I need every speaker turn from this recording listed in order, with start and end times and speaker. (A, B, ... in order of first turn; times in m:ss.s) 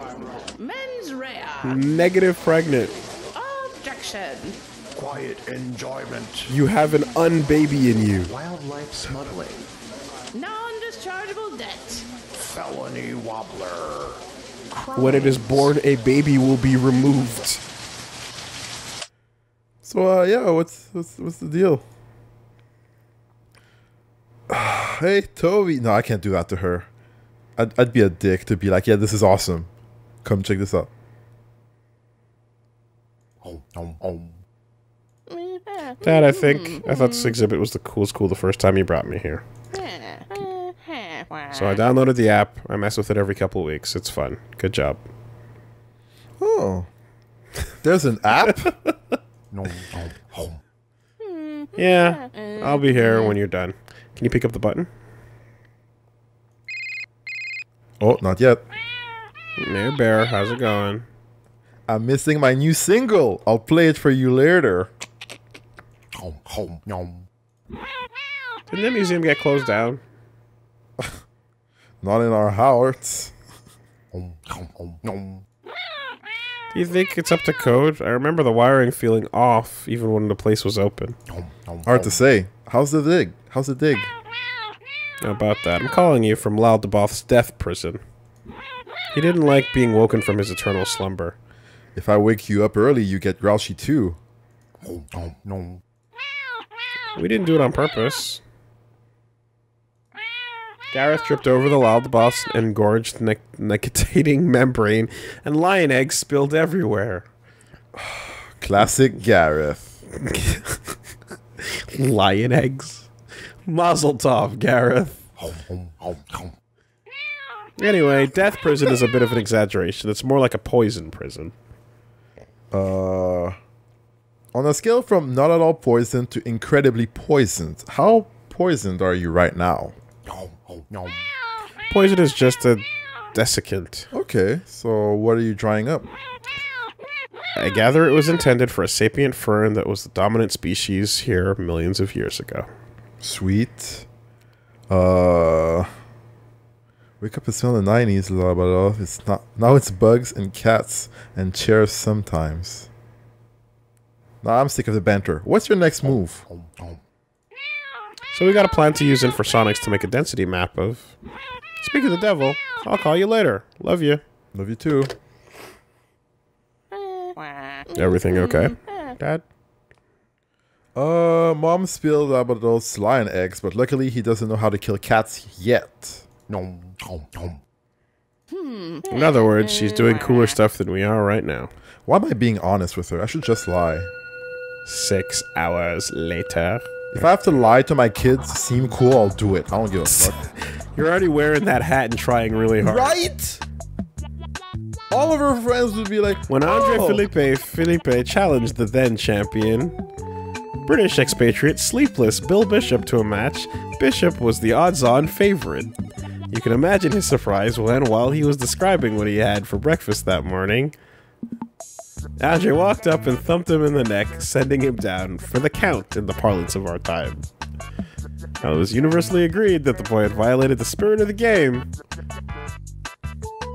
0:00.5-0:02.0 A
0:01.6-0:02.9 B
0:03.3-0:04.6 A
0:04.9-0:06.5 C
0:06.5-0:08.3 B
0:08.2-0:09.7 C
0:10.3-0:12.1 A
0:12.3-0:15.6 C
0:14.9-0:17.6 B
0:15.0-0:15.4 A
0:19.8-0:21.8 D
0:24.5-0:26.9 D
0:27.6-0:29.7 D
0:30.2-0:30.9 D
0:36.0-0:39.4 B
0:41.5-0:45.0 B
0:46.4-0:46.9 D
0:47.8-0:48.7 D
0:51.7-0:54.9 B
0:58.0-0:58.6 D
0:59.6-1:01.0 B
1:01.9-1:04.9 D
1:08.7-1:10.0 B
1:12.0-1:13.3 D
1:16.7-1:21.2 B
1:21.8-1:24.1 D
1:25.2-1:28.0 B
1:29.1-1:31.4 B
1:31.9-1:34.2 D
1:37.2-1:38.4 B
1:40.9-1:47.2 B
1:47.9-1:50.0 D
1:50.2-1:50.8 B
1:51.6-1:53.1 B
1:53.6-1:55.2 B
1:57.8-2:01.5 B
2:02.7-2:03.6 D
2:04.5-2:09.9 D
2:11.9-2:14.1 B
2:14.1-2:16.1 D
2:17.5-2:22.7 B
2:23.2-2:24.1 D
2:24.9-2:25.9 D
2:27.2-2:32.9 D
2:34.4-2:36.5 D
2:38.3-2:41.1 B
2:41.8-2:44.2 B
2:44.5-2:45.1 D
2:47.9-2:49.4 B
2:51.0-2:56.2 D
2:59.1-3:01.7 B
3:02.0-3:04.1 D
3:04.8-3:06.8 B
3:07.1-3:10.4 D
3:10.1-3:13.1 B
3:12.8-3:13.6 D
3:15.1-3:17.2 D
3:16.5-3:19.9 B
3:20.8-3:25.9 B
3:26.5-3:30.9 B
3:32.4-3:37.4 B
3:38.6-3:41.9 B